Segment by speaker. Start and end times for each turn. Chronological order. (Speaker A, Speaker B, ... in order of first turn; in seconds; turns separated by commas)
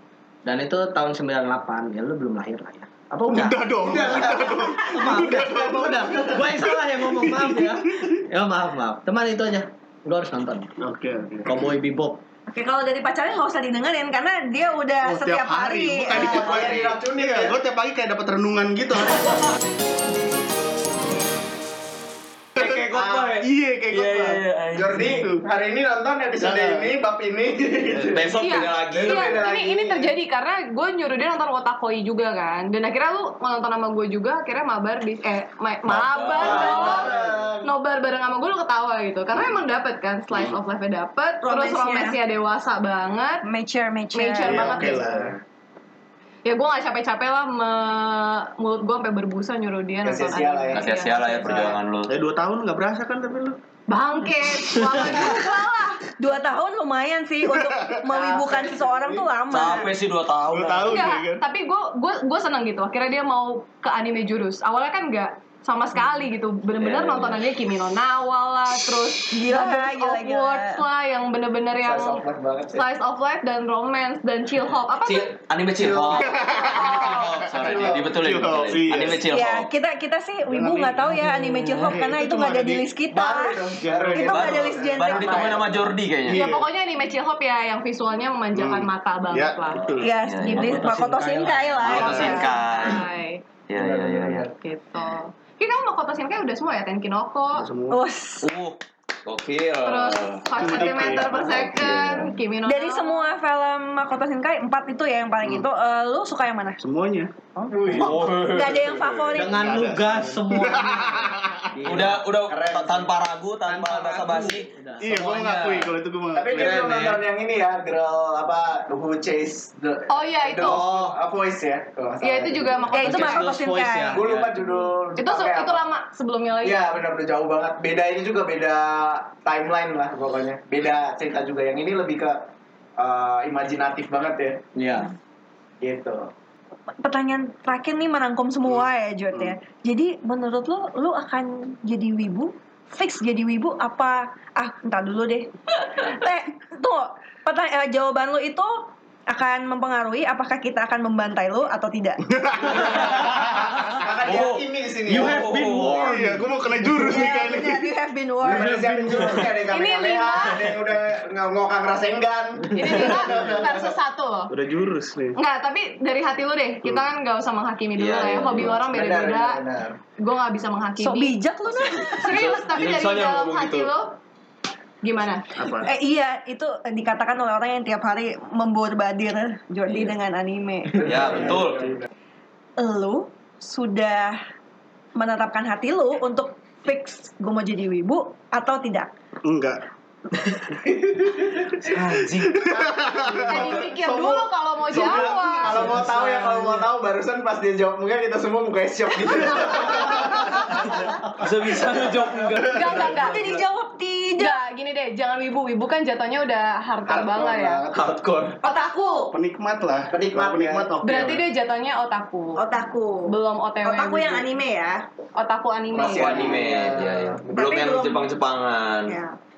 Speaker A: 0.5-3.7, Speaker B: 3.3-8.2, Speaker C: 3.8-6.3, Speaker A: 4.9-10.7, Speaker B: 10.8-11.6, Speaker A: 11.4-12.2, Speaker D: 12.5-16.6, Speaker B: 15.0-19.4, Speaker C: 16.1-17.6, Speaker E: 22.6-25.2, Speaker C: 22.9-23.4, Speaker B: 23.4-24.4, Speaker C: 24.8-30.1, Speaker B: 24.9-25.4, Speaker B: 26.4-26.9, Speaker E: 27.9-29.4, Speaker F: 28.4-37.1, Speaker E: 35.9-37.1, Speaker C: 36.4-37.7, Speaker F: 37.6-43.4, Speaker D: 41.4-42.2, Speaker D: 43.4-44.9, Speaker F: 44.1-45.0, Speaker B: 44.4-45.4, Speaker C: 44.5-45.4, Speaker F: 46.5-51.7, Speaker C: 50.0-51.8, Speaker E: 50.7-52.1, Speaker B: 52.1-53.6, Speaker F: 53.9-56.0, Speaker D: 56.1-59.9, Speaker B: 57.5-57.9, Speaker C: 58.1-59.3, Speaker E: 59.5-61.0, Speaker B: 60.5-61.5, Speaker F: 60.9-72.2, Speaker E: 66.8-67.4, Speaker D: 69.3-70.8, Speaker C: 71.8-72.8, Speaker F: 72.7-75.4, Speaker E: 75.0-79.7, Speaker C: 75.8-78.2, Speaker B: 76.2-79.2, Speaker F: 76.3-77.2, Speaker D: 79.3-85.6, Speaker B: 80.5-82.9, Speaker E: 81.6-81.9, Speaker C: 83.1-85.8, Speaker B: 83.8-84.6, Speaker E: 84.2-86.5, Speaker B: 86.3-86.7, Speaker F: 86.3-89.9, Speaker B: 88.5-90.1, Speaker D: 90.0-92.5, Speaker E: 90.2-90.9, Speaker A: 90.4-92.3, Speaker E: 91.8-93.1, Speaker B: 92.0-92.3, Speaker F: 92.1-93.5, Speaker E: 93.7-94.5, Speaker C: 93.8-94.5, Speaker F: 94.5-97.7, Speaker B: 97.5-98.0, Speaker D: 97.9-98.5, Speaker E: 98.4-102.2, Speaker F: 99.8-103.3, Speaker B: 100.6-102.0, Speaker D: 102.7-106.8, Speaker B: 106.8-107.3, Speaker C: 107.7-108.4, Speaker E: 107.9-109.3, Speaker D: 108.3-109.8, Speaker A: 109.3-112.2, Speaker B: 109.5-111.8, Speaker E: 111.8-115.9, Speaker C: 112.5-113.2, Speaker A: 113.7-115.1, Speaker B: 115.0-117.1, Speaker C: 116.3-123.1, Speaker E: 116.6-117.1, Speaker F: 120.1-120.9, Speaker A: 120.6-121.2, Speaker F: 122.2-123.5, Speaker D: 122.9-124.2, Speaker A: 123.0-124.7, Speaker E: 123.1-124.4, Speaker C: 124.1-125.8, Speaker F: 125.2-126.8, Speaker C: 126.6-132.4, Speaker C: 133.0-134.6, Speaker A: 134.8-135.1, Speaker C: 135.8-136.3, Speaker D: 137.0-152.2, Speaker B: 152.3-153.8, Speaker E: 152.8-156.1, Speaker C: 152.9-153.2, Speaker C: 153.9-155.4, Speaker A: 155.1-156.5, Speaker B: 155.9-157.9, Speaker D: 156.9-158.8, Speaker C: 158.4-163.9, Speaker A: 158.5-159.4, Speaker F: 159.7-160.7, Speaker F: 162.7-164.5, Speaker B: 164.5-165.4, Speaker F: 165.3-169.6, Speaker E: 168.0-168.8, Speaker C: 168.7-170.0, Speaker F: 170.2-171.4, Speaker D: 171.0-172.3, Speaker E: 171.7-173.9, Speaker F: 172.1-174.2, Speaker F: 175.0-175.5, Speaker B: 175.6-175.9, Speaker D: 175.8-181.1, Speaker C: 181.0-182.1, Speaker E: 181.0-181.9, Speaker D: 182.8-184.4, Speaker D: 185.2-189.1, Speaker B: 189.4-189.8, Speaker C: 190.8-191.8, Speaker E: 191.8-192.7, Speaker B: 192.3-193.8, Speaker C: 192.7-203.2, Speaker F: 193.4-195.9, Speaker B: 194.9-196.5, Speaker E: 201.4-203.3, Speaker F: 202.6-203.5, Speaker D: 203.3-204.6, Speaker F: 204.4-207.8, Speaker C: 207.1-208.6, Speaker E: 207.9-208.2, Speaker D: 208.6-209.3, Speaker F: 208.7-209.2, Speaker B: 209.3-211.4, Speaker C: 210.1-210.9, Speaker F: 211.0-212.6, Speaker D: 212.6-215.1, Speaker F: 213.3-214.5, Speaker F: 215.4-216.6, Speaker C: 215.9-217.5, Speaker E: 216.0-219.2, Speaker D: 217.5-218.3, Speaker D: 219.1-219.4